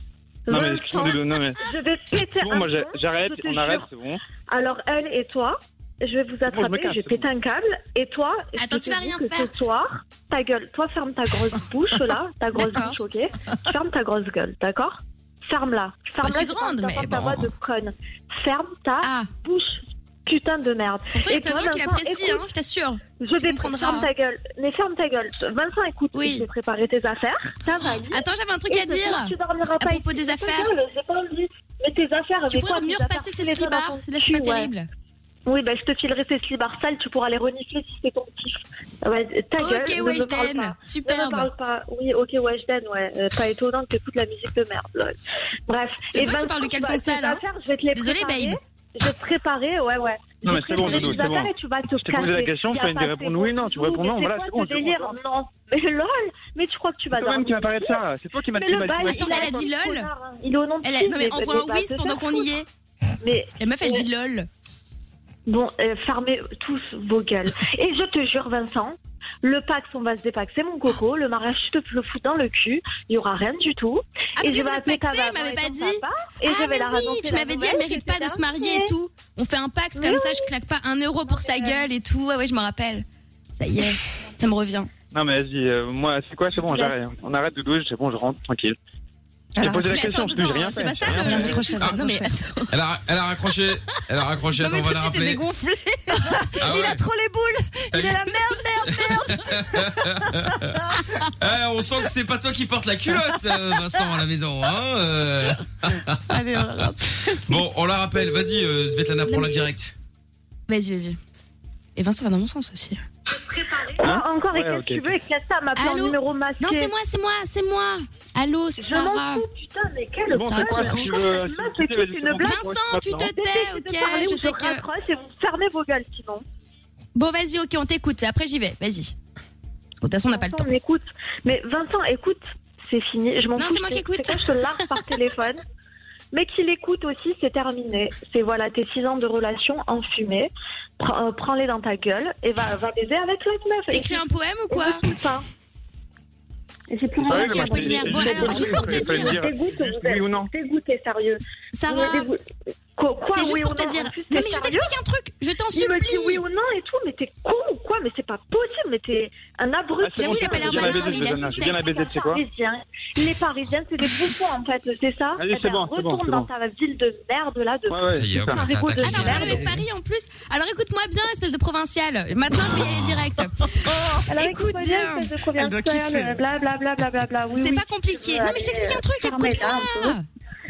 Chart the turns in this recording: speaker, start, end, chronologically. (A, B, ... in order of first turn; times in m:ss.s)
0:00.5-0:03.9 A
0:00.5-0:01.6 B
0:02.2-0:04.2 B
0:04.5-0:22.4 A
0:06.5-0:07.2 B
0:08.6-0:09.5 C
0:12.5-0:13.0 C
0:16.2-0:17.5 C
0:19.0-0:19.3 C
0:21.1-0:24.1 C
0:23.2-0:34.7 A
0:26.1-0:26.5 C
0:28.1-0:30.7 C
0:32.5-0:34.9 C
0:35.4-0:45.2 A
0:39.6-0:41.5 C
0:45.7-0:58.0 A
0:46.1-0:47.4 C
0:47.9-0:48.6 C
0:50.4-0:55.2 B
0:57.1-0:59.7 B
0:58.6-1:02.5 A
0:59.0-1:00.1 C
1:00.8-1:02.6 C
1:03.2-1:04.0 A
1:03.6-1:04.5 C
1:05.5-1:18.9 A
1:14.4-1:23.0 C
1:19.9-1:20.5 A
1:21.2-1:21.8 A
1:23.6-1:24.9 C
1:25.1-1:28.8 B
1:26.7-1:26.9 A
1:29.6-1:30.2 D
1:29.6-1:31.6 B
1:29.9-1:32.7 C
1:31.0-1:32.3 D
1:32.7-1:35.4 E
1:34.6-1:40.2 D
1:36.6-1:37.0 E
1:37.9-1:38.3 E
1:38.8-1:46.9 E
1:40.7-1:41.2 D
1:46.3-1:47.6 D
1:47.4-1:49.9 E
1:50.7-1:51.2 C
1:52.0-1:53.0 C
1:53.3-1:56.9 A
1:54.0-1:55.1 B
1:55.8-1:59.4 C
1:58.8-2:02.6 A
2:00.3-2:03.3 B
2:00.5-2:01.2 C
2:02.4-2:04.8 C
2:03.2-2:06.4 A
2:07.1-2:09.1 C
2:10.0-2:10.7 C
2:10.3-2:15.6 A
2:13.6-2:14.5 C
2:16.3-2:25.4 A
2:23.9-2:25.1 C
2:26.9-2:32.4 A
2:27.2-2:30.5 B
2:27.2-2:29.4 C
2:31.7-2:32.3 C
2:33.0-2:34.9 A
2:33.3-2:36.4 C
2:35.7-2:49.6 A
2:40.0-2:42.4 B
2:40.2-2:41.8 C
2:45.4-2:46.5 B
2:47.9-2:48.6 B
2:48.1-2:49.8 E
2:49.0-2:53.9 C
2:52.6-2:53.3 E
2:53.8-2:56.4 D
2:54.3-3:00.2 A
2:57.5-3:00.2 C